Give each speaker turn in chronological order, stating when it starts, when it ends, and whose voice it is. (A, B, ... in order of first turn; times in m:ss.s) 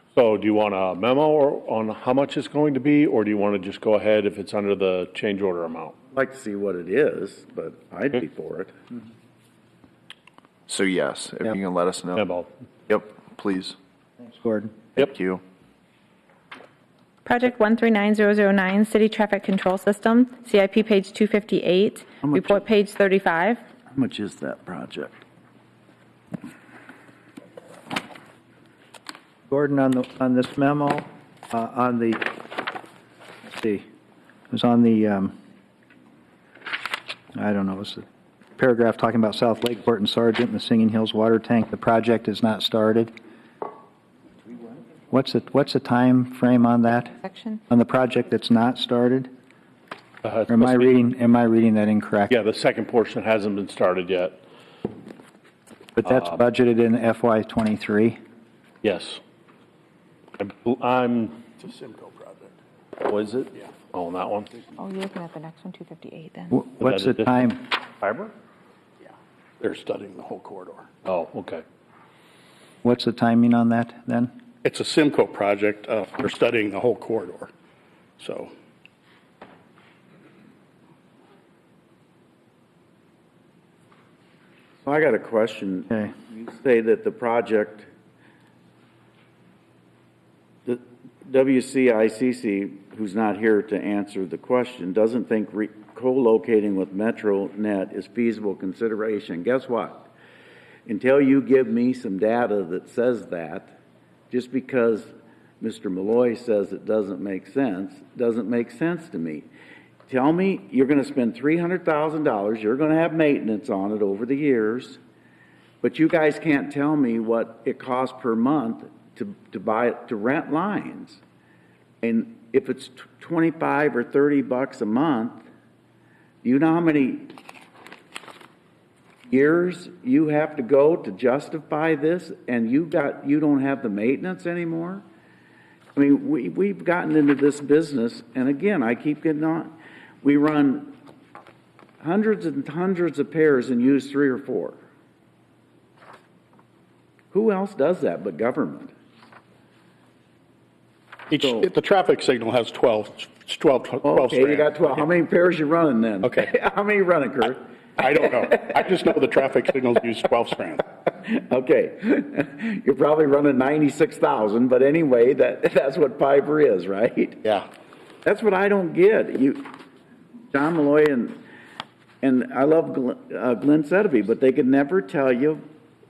0:00.1-0:05.9 A
0:06.1-0:08.7 B
0:10.7-0:12.2 C
0:12.1-0:12.5 A
0:12.9-0:13.8 C
0:14.2-0:14.8 D
0:15.0-0:15.4 C
0:17.2-0:23.6 E
0:22.2-0:22.6 B
0:23.9-0:25.2 B
0:29.5-0:32.5 D
0:33.5-0:33.8 D
0:34.5-0:35.4 D
0:37.3-0:38.0 D
0:38.6-0:43.1 D
0:45.1-0:47.2 D
0:47.2-0:47.6 E
0:47.7-0:49.3 D
0:50.2-0:50.9 A
0:50.5-0:52.4 D
0:52.3-0:54.4 A
0:56.0-0:58.2 D
0:58.8-0:59.2 A
1:00.4-1:01.4 A
1:01.6-1:02.5 F
1:03.0-1:04.6 A
1:04.8-1:06.6 E
1:06.5-1:07.7 D
1:06.8-1:08.3 A
1:09.6-1:10.9 F
1:11.0-1:11.6 A
1:12.8-1:14.3 D
1:14.6-1:17.5 F
1:18.2-1:18.5 F
1:24.8-1:27.9 B
1:30.7-1:40.1 B
1:40.9-1:43.8 B
1:44.3-1:49.5 B
1:50.1-1:55.0 B
1:55.8-2:01.2 B
2:02.0-2:05.4 B
2:06.4-2:07.3 B
2:09.3-2:15.0 B
2:15.9-2:21.0 B
2:22.0-2:24.8 B
2:27.3-2:28.9 B
2:31.3-2:34.8 F
2:31.4-2:31.7 B
2:34.0-2:37.6 B
2:36.2-2:36.5 F
2:38.0-2:40.8 F
2:41.1-2:47.6 B
2:48.2-2:49.7 B
2:50.5-2:51.4 B
2:52.2-2:55.6 B